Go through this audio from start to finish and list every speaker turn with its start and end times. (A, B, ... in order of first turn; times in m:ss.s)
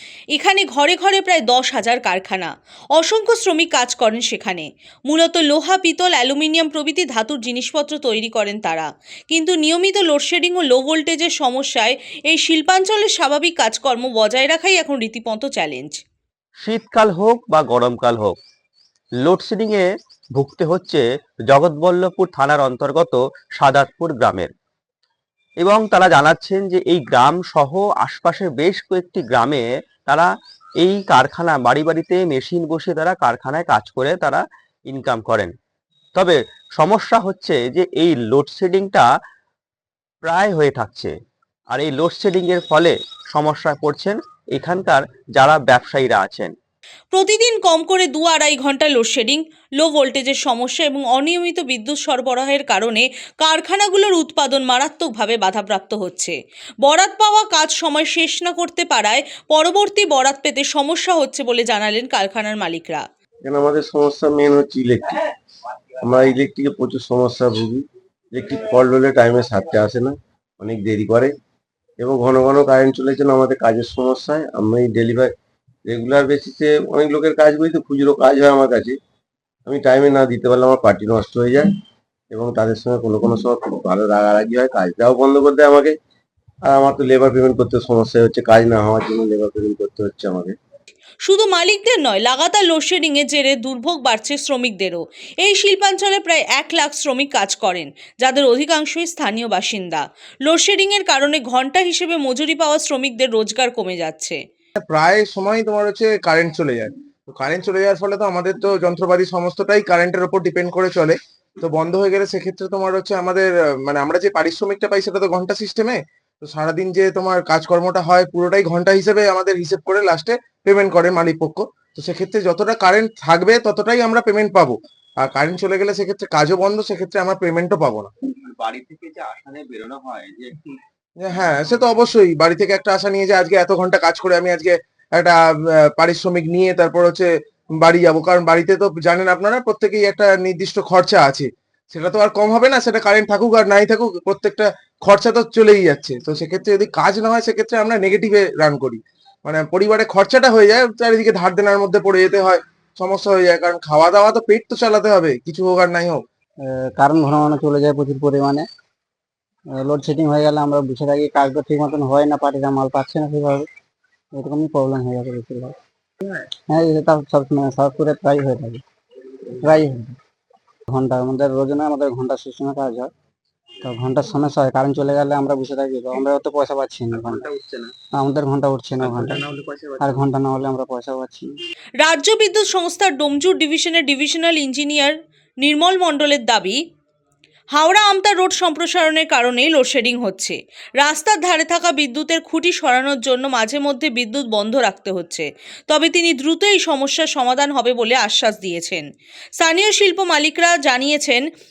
0:00.4-0:16.0 A
0:16.6-0:18.4 B
0:19.2-0:19.9 B
0:20.4-0:24.5 B
0:25.6-0:30.3 B
0:30.8-0:35.5 B
0:36.2-0:39.1 B
0:40.2-0:41.1 B
0:41.7-0:46.5 B
0:47.1-1:03.0 A
1:03.5-1:05.2 C
1:06.0-1:11.3 C
1:12.0-1:15.3 C
1:15.9-1:19.0 C
1:19.7-1:21.7 C
1:22.3-1:25.9 C
1:26.7-1:30.6 C
1:31.2-1:44.4 A
1:44.8-2:08.1 D
2:08.3-2:10.8 B
2:11.2-2:17.3 D
2:17.8-2:36.2 D
2:36.9-2:38.7 E
2:39.8-2:43.7 E
2:44.4-2:45.8 E
2:46.7-2:48.8 E
2:49.6-2:50.2 E
2:50.9-2:53.1 E
2:53.8-2:57.4 E
2:57.5-2:57.9 B
2:58.1-2:59.4 E
2:59.5-3:00.0 B
3:00.0-3:01.5 E
3:02.0-3:06.8 A
3:07.8-3:19.1 A
3:19.6-3:21.4 A